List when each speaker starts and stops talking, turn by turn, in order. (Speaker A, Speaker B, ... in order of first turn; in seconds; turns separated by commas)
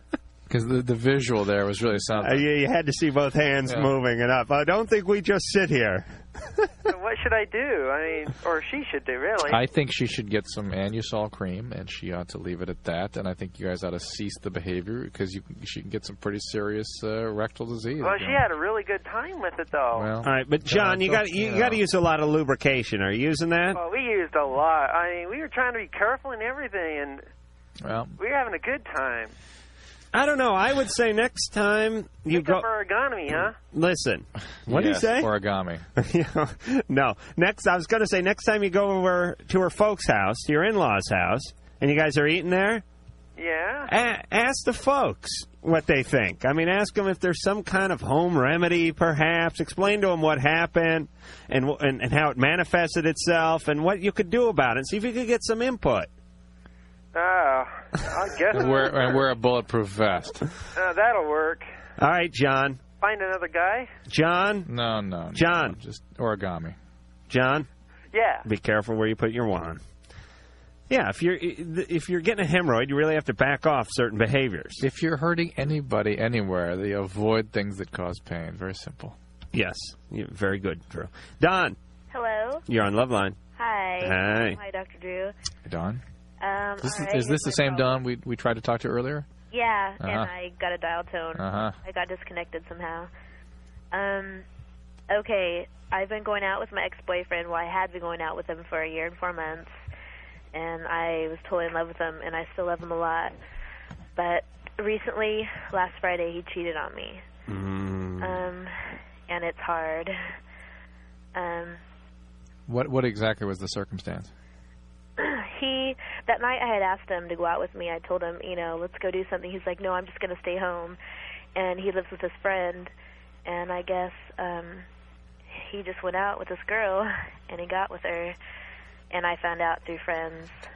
Speaker A: 0.5-2.4, Speaker B: 2.2-6.7, Speaker C: 6.9-9.6, Speaker A: 9.5-18.5, Speaker C: 18.0-20.1, Speaker A: 19.9-21.8, Speaker B: 20.2-23.8, Speaker C: 23.7-27.2, Speaker A: 27.8-28.1, Speaker C: 28.2-29.3, Speaker B: 30.1-32.6, Speaker C: 32.3-33.6, Speaker B: 33.3-35.3, Speaker A: 34.7-35.8, Speaker B: 36.0-42.8, Speaker C: 43.4-43.9, Speaker B: 43.9-56.1, Speaker C: 57.1-59.3, Speaker A: 58.5-60.4, Speaker C: 60.7-61.6, Speaker B: 62.0-62.8, Speaker C: 63.0-63.9, Speaker B: 64.1-64.7, Speaker A: 64.7-66.8, Speaker B: 65.3-65.8, Speaker B: 67.3-67.7, Speaker C: 68.1-68.4, Speaker B: 68.4-69.8, Speaker B: 70.9-74.8, Speaker A: 74.8-79.1, Speaker B: 79.5-81.8, Speaker D: 82.1-82.7, Speaker B: 82.7-83.4, Speaker D: 83.5-85.3, Speaker B: 84.0-84.6, Speaker A: 85.6-86.0, Speaker D: 86.4-88.0, Speaker A: 86.8-89.3, Speaker D: 89.5-93.1, Speaker A: 90.0-90.3, Speaker A: 91.3-91.8, Speaker D: 93.9-94.4, Speaker D: 95.1-99.8, Speaker D: 100.5-103.3, Speaker D: 104.2-107.2, Speaker B: 107.5-108.4, Speaker D: 108.2-110.2, Speaker D: 111.3-111.8, Speaker A: 112.7-114.3, Speaker D: 115.2-121.0, Speaker D: 121.5-122.9, Speaker D: 123.4-124.8, Speaker D: 125.5-128.3, Speaker D: 129.1-130.5